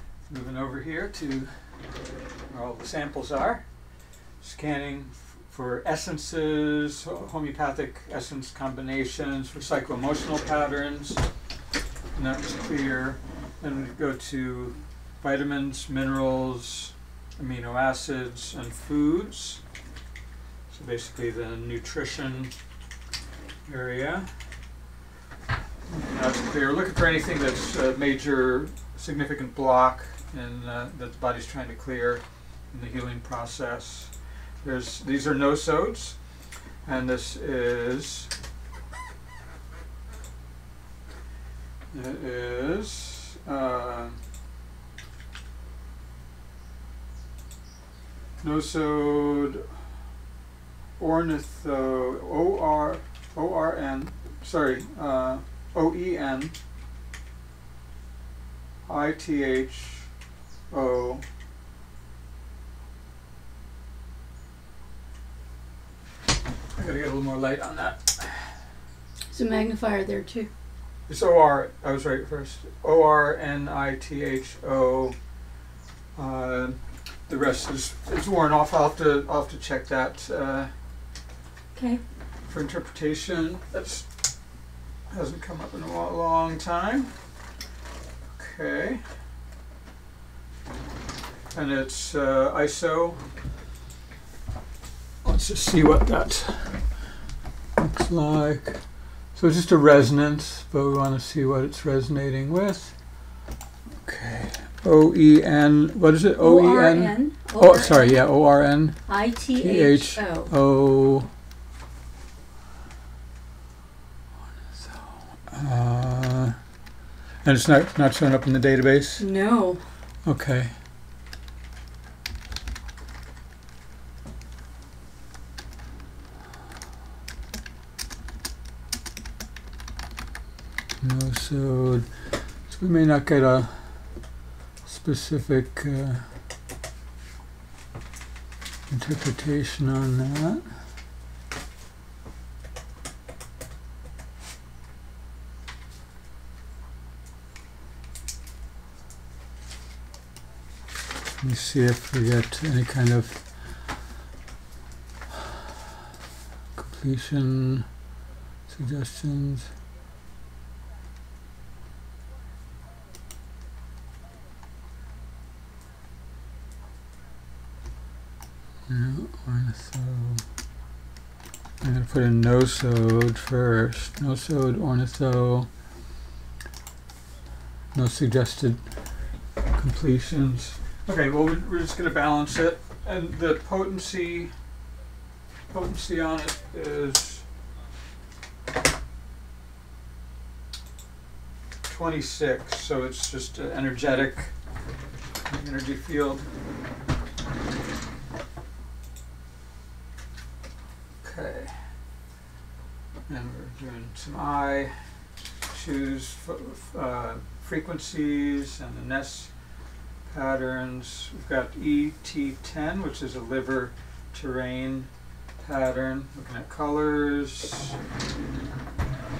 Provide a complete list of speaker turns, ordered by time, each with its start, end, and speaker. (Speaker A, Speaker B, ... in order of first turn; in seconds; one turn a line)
Speaker A: 0.3-1.5
Speaker A: 2.5-3.7
Speaker A: 4.4-11.2
Speaker A: 12.1-19.6
Speaker A: 20.7-22.6
Speaker A: 23.6-24.3
Speaker A: 25.9-36.2
Speaker A: 36.8-38.3
Speaker A: 41.9-44.2
Speaker A: 48.4-49.7
Speaker A: 51.0-56.5
Speaker A: 58.8-60.1
Speaker A: 60.7-61.2
Speaker A: 66.7-68.6
Speaker B: 69.3-70.5
Speaker A: 71.1-75.2
Speaker A: 76.2-80.7
Speaker B: 81.7-82.0
Speaker A: 82.5-84.2
Speaker A: 85.1-87.1
Speaker A: 88.3-89.0
Speaker A: 91.5-93.2
Speaker A: 95.2-97.0
Speaker A: 97.8-103.0
Speaker A: 104.0-111.3
Speaker B: 106.4-108.2
Speaker B: 109.1-110.5
Speaker A: 114.7-116.6
Speaker A: 117.4-119.2
Speaker B: 119.2-119.8
Speaker A: 120.2-120.8
Speaker A: 131.0-134.3
Speaker A: 134.8-136.3
Speaker A: 138.9-140.7
Speaker A: 151.4-153.6
Speaker A: 156.8-157.9
Speaker A: 158.7-159.7
Speaker A: 168.9-170.4
Speaker A: 171.8-175.7
Speaker A: 177.9-178.9
Speaker A: 179.7-184.5
Speaker A: 185.7-187.4
Speaker A: 191.8-194.5
Speaker A: 195.5-196.5
Speaker A: 201.2-201.9
Speaker A: 203.3-205.0
Speaker A: 205.6-209.5
Speaker A: 210.2-217.9